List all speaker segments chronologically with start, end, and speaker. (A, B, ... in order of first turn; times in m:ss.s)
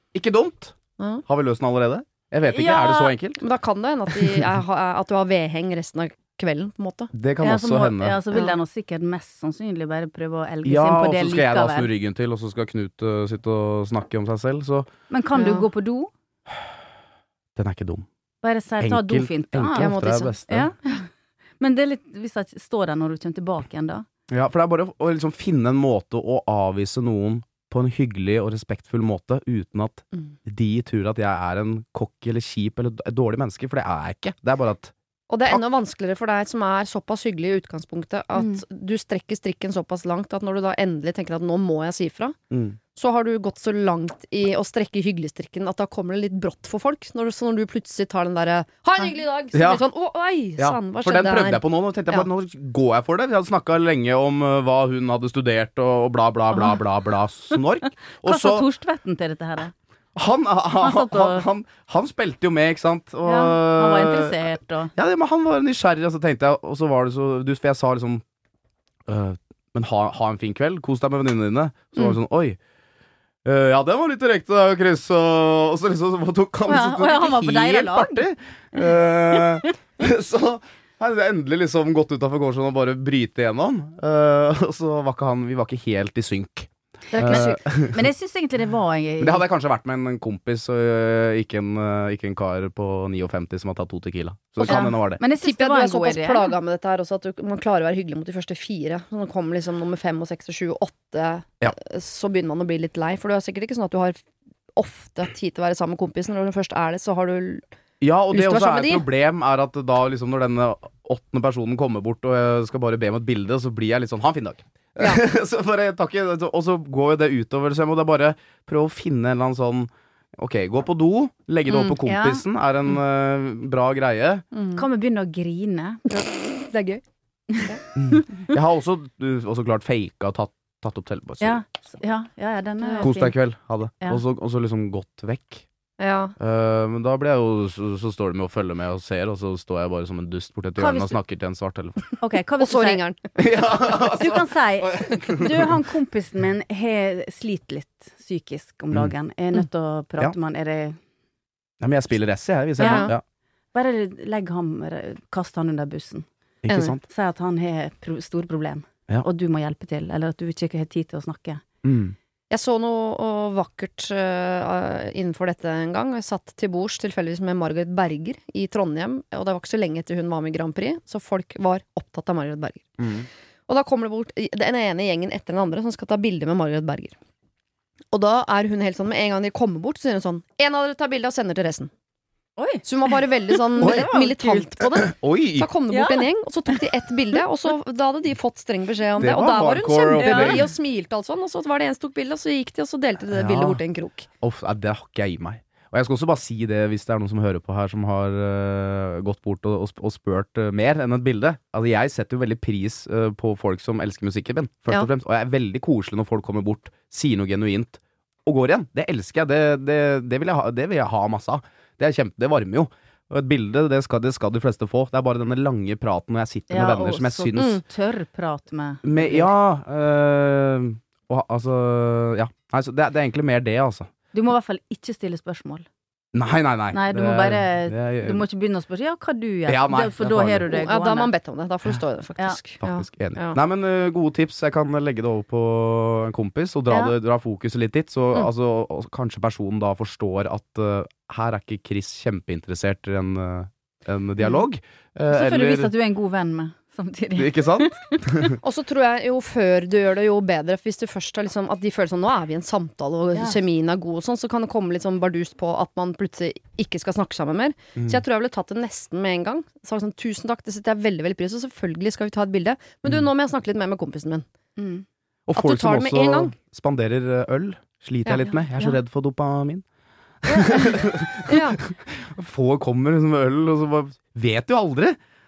0:00.1-0:00.7 A
0:01.3-0:03.4 A
0:02.5-0:03.2 B
0:03.4-0:07.1 C
0:07.1-0:08.2 A
0:07.4-0:11.9 B
0:08.3-0:08.6 C
0:10.6-0:14.9 A
0:15.1-0:16.1 B
0:15.3-0:15.6 C
0:17.6-0:18.0 A
0:18.4-0:19.9 B
0:18.8-0:20.7 A
0:19.8-0:20.4 C
0:20.5-0:21.1 B
0:21.6-0:24.0 B
0:24.3-0:34.9 A
0:35.3-0:42.4 C
0:42.5-0:42.8 A
0:42.9-0:52.3 C
0:49.5-0:49.8 A
0:50.6-0:58.7 A
0:56.5-0:56.8 B
0:58.2-0:59.7 B
1:00.2-1:08.2 A
1:00.8-1:01.5 B
1:03.2-1:04.9 B
1:09.1-1:12.6 A
1:13.4-1:28.1 A
1:16.7-1:19.6 B
1:27.1-1:27.6 C
1:27.8-1:29.5 B
1:29.2-1:35.2 A
1:34.6-1:44.2 C
1:34.7-1:36.6 B
1:44.8-1:47.6 C
1:48.0-2:04.4 A
1:48.3-1:49.1 C
2:01.7-2:02.4 B
2:04.5-2:04.8 C
2:04.7-2:06.0 B
2:06.1-2:07.0 C
2:07.5-2:08.5 B
2:08.0-2:11.6 A
2:11.4-2:13.4 B
2:12.8-2:13.1 C
2:13.0-2:15.6 A
2:16.0-2:16.3 C
2:16.4-2:22.1 A
2:20.8-2:21.2 B
2:22.2-2:23.0 B
2:22.6-2:23.4 C
2:23.4-2:25.7 A
2:24.0-2:31.0 B
2:31.8-2:33.2 A
2:32.8-2:33.1 C
2:32.8-2:33.1 B
2:33.7-2:36.2 B
2:36.6-2:37.0 A
2:36.7-2:37.0 C
2:37.0-2:41.6 B
2:41.8-2:42.1 A
2:42.5-2:53.0 C
2:53.0-2:53.2 A
2:53.7-2:57.1 C
2:58.1-3:01.9 C
3:02.6-3:04.4 B
3:02.8-3:14.2 C
3:03.8-3:05.7 A
3:05.9-3:06.3 B
3:09.2-3:10.6 A
3:10.1-3:10.7 B
3:13.3-3:13.8 A
3:14.4-3:37.8 A
3:36.7-3:39.5 B
3:39.0-3:44.1 A
3:44.3-3:45.8 B
3:46.3-3:48.4 A
3:46.9-3:51.3 B
3:49.6-3:50.7 A
3:50.6-3:53.6 C
3:52.8-4:05.9 A
3:56.9-3:57.1 B
4:05.3-4:08.5 B
4:07.4-4:08.6 A
4:08.6-4:24.4 C
4:13.3-4:13.6 B
4:24.8-4:25.0 B
4:25.5-4:29.8 A
4:25.5-4:26.5 C
4:28.2-4:29.0 C
4:30.4-4:35.2 A
4:31.4-4:31.8 C